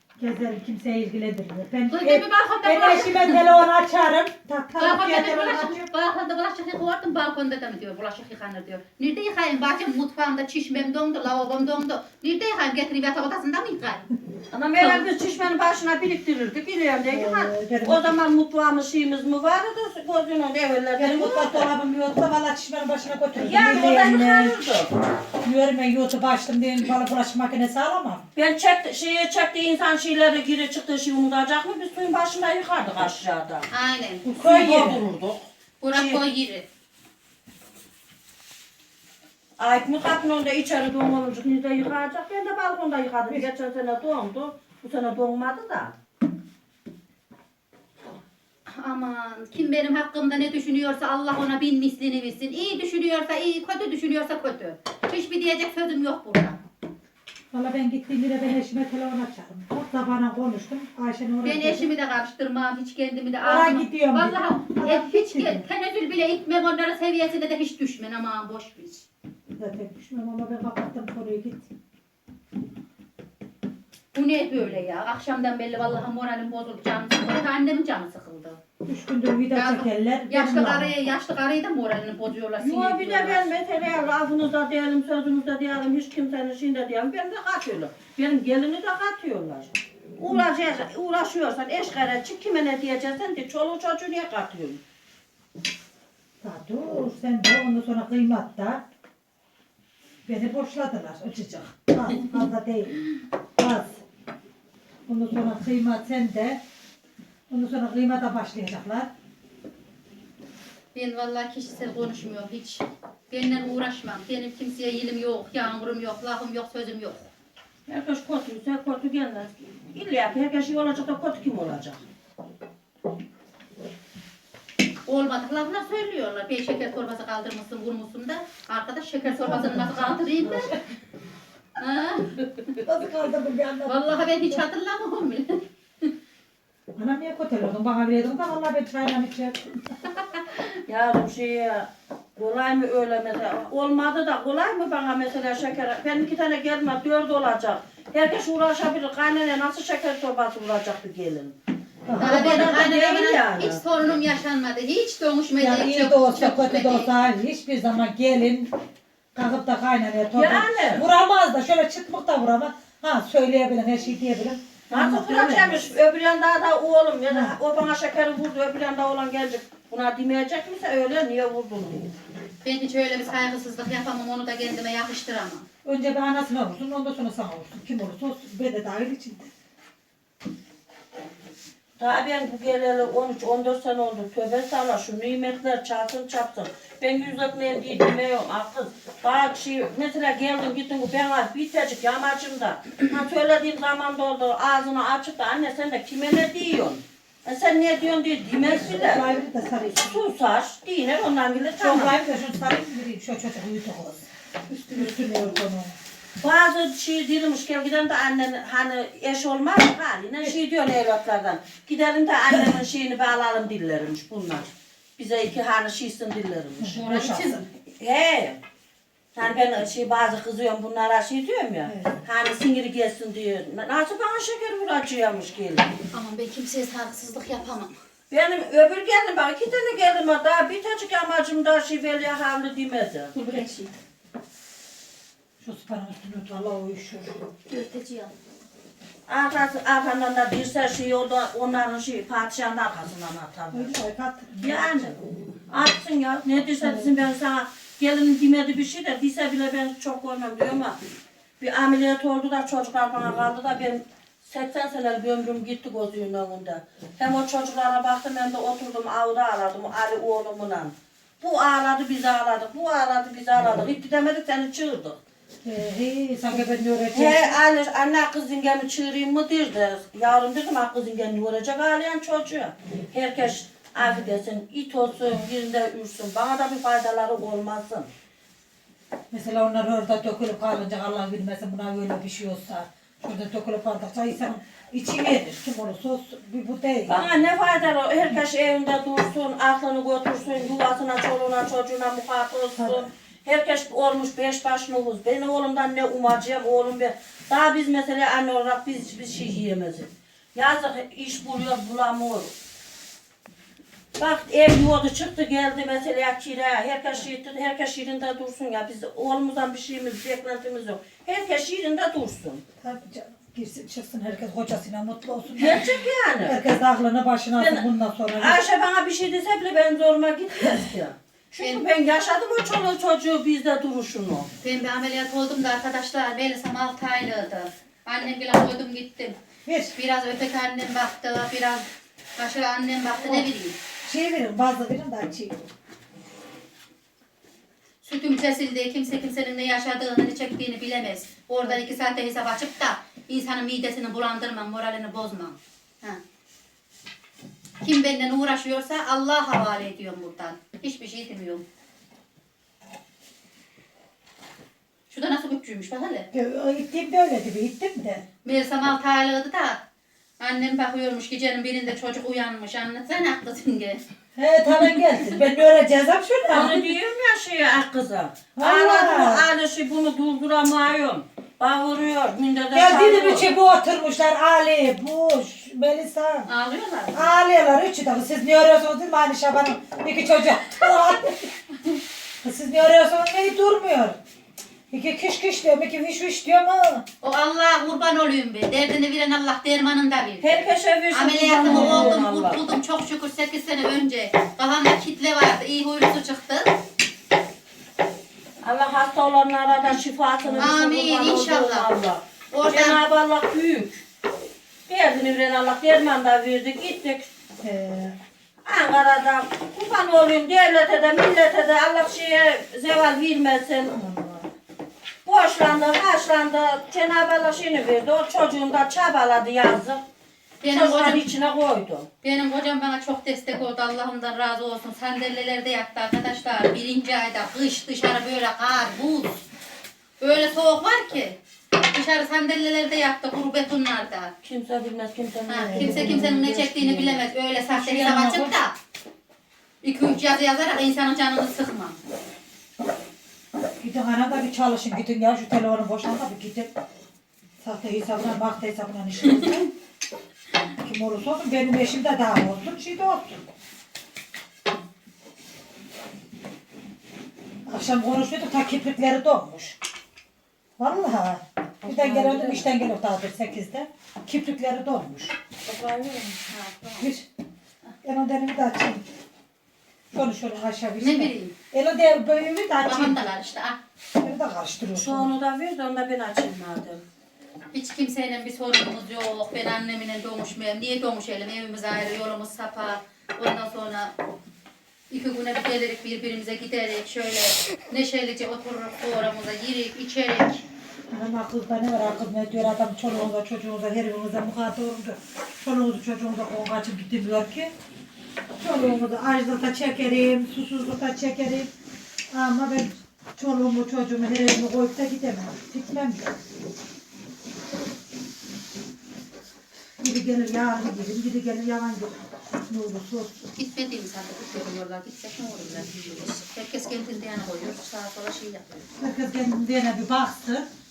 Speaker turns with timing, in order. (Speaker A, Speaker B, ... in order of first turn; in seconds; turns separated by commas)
Speaker A: 0.2-5.8, Speaker B: 1.9-3.4, Speaker B: 4.8-14.1, Speaker C: 14.5-21.7, Speaker B: 14.8-15.1, Speaker A: 17.1-18.1, Speaker A: 21.0-24.6, Speaker C: 23.4-24.9, Speaker A: 25.4-28.2, Speaker C: 28.4-33.7, Speaker B: 33.7-34.2, Speaker A: 34.2-35.0, Speaker C: 34.4-36.2, Speaker B: 35.8-36.6, Speaker C: 39.6-45.9, Speaker B: 48.7-56.6, Speaker A: 57.5-61.9, Speaker B: 61.4-69.1, Speaker A: 63.4-65.6, Speaker A: 69.6-71.7, Speaker B: 74.1-78.6, Speaker A: 78.8-81.0, Speaker B: 79.5-83.5, Speaker C: 82.6-94.8, Speaker A: 96.4-98.8, Speaker A: 100.2-103.0, Speaker A: 103.6-104.0, Speaker A: 105.1-106.6, Speaker A: 107.5-109.1, Speaker B: 110.9-117.3, Speaker C: 117.9-122.0, Speaker B: 125.1-130.7, Speaker A: 129.2-130.8, Speaker B: 131.8-132.4, Speaker A: 132.8-134.6, Speaker B: 133.8-136.1, Speaker A: 137.0-140.0, Speaker B: 140.3-140.6, Speaker C: 140.9-151.5, Speaker A: 152.1-152.8, Speaker C: 152.2-153.8, Speaker B: 152.2-157.1, Speaker A: 155.6-158.7, Speaker A: 159.3-165.9, Speaker C: 160.3-161.1, Speaker C: 164.9-172.1, Speaker A: 167.3-167.6, Speaker B: 172.6-175.7, Speaker A: 175.8-179.5, Speaker C: 182.0-199.2, Speaker A: 198.6-200.2, Speaker C: 200.0-202.1, Speaker A: 201.8-205.9, Speaker C: 206.4-217.1, Speaker A: 216.8-217.6, Speaker B: 216.9-217.7, Speaker C: 218.0-218.6, Speaker C: 219.3-225.9, Speaker A: 221.8-222.2, Speaker B: 226.1-228.0, Speaker C: 228.3-233.3, Speaker B: 233.3-233.9, Speaker A: 235.6-237.4, Speaker B: 237.7-238.3, Speaker C: 239.3-243.9, Speaker A: 243.7-244.8, Speaker C: 244.6-245.2, Speaker C: 245.7-251.0, Speaker A: 246.8-247.1, Speaker C: 251.6-265.2, Speaker A: 265.6-267.6, Speaker C: 267.1-278.1, Speaker A: 274.0-274.4, Speaker A: 279.3-287.2, Speaker C: 287.1-302.5, Speaker A: 292.8-293.0, Speaker C: 304.2-312.6, Speaker A: 312.8-318.6, Speaker C: 315.5-316.6, Speaker C: 317.6-317.8, Speaker C: 318.4-324.5, Speaker B: 324.6-329.4, Speaker A: 329.6-329.9, Speaker B: 329.9-331.9, Speaker B: 332.4-333.8, Speaker A: 334.0-335.6, Speaker B: 338.0-346.2, Speaker B: 347.8-351.6, Speaker B: 355.1-356.3, Speaker A: 356.3-358.2, Speaker B: 358.4-359.8, Speaker B: 360.4-364.0, Speaker A: 364.4-366.8, Speaker B: 364.7-365.4, Speaker C: 366.5-373.5, Speaker A: 368.6-369.4, Speaker A: 372.7-376.5, Speaker B: 376.5-377.3, Speaker A: 377.1-381.6, Speaker A: 382.4-384.2, Speaker A: 384.9-387.1, Speaker B: 387.2-396.7, Speaker C: 390.4-392.6, Speaker A: 391.6-392.2, Speaker C: 398.6-404.0, Speaker B: 400.6-401.9, Speaker B: 402.5-403.0, Speaker C: 404.9-407.3, Speaker A: 407.6-408.2, Speaker C: 408.6-413.9, Speaker A: 413.9-414.5, Speaker C: 415.2-420.0, Speaker B: 420.6-421.2, Speaker C: 420.6-422.1, Speaker B: 422.2-429.4, Speaker B: 430.2-434.3, Speaker C: 434.4-437.2, Speaker B: 435.5-438.7, Speaker A: 435.6-436.4, Speaker A: 437.7-438.5, Speaker B: 439.8-442.0, Speaker A: 443.8-446.7, Speaker A: 447.6-449.7, Speaker A: 450.8-453.4, Speaker A: 457.7-459.8, Speaker A: 460.8-465.3, Speaker C: 461.8-462.7, Speaker C: 465.6-466.4, Speaker B: 466.5-467.1, Speaker A: 467.0-467.3, Speaker A: 468.0-469.0, Speaker A: 470.1-473.2, Speaker B: 471.0-471.5, Speaker B: 472.8-473.8, Speaker A: 474.2-475.3, Speaker C: 474.9-477.0, Speaker B: 477.7-484.1, Speaker B: 485.1-490.6, Speaker A: 491.1-497.7, Speaker A: 498.6-501.7, Speaker A: 502.3-506.4, Speaker A: 510.0-513.3, Speaker B: 513.5-518.7, Speaker A: 519.0-520.6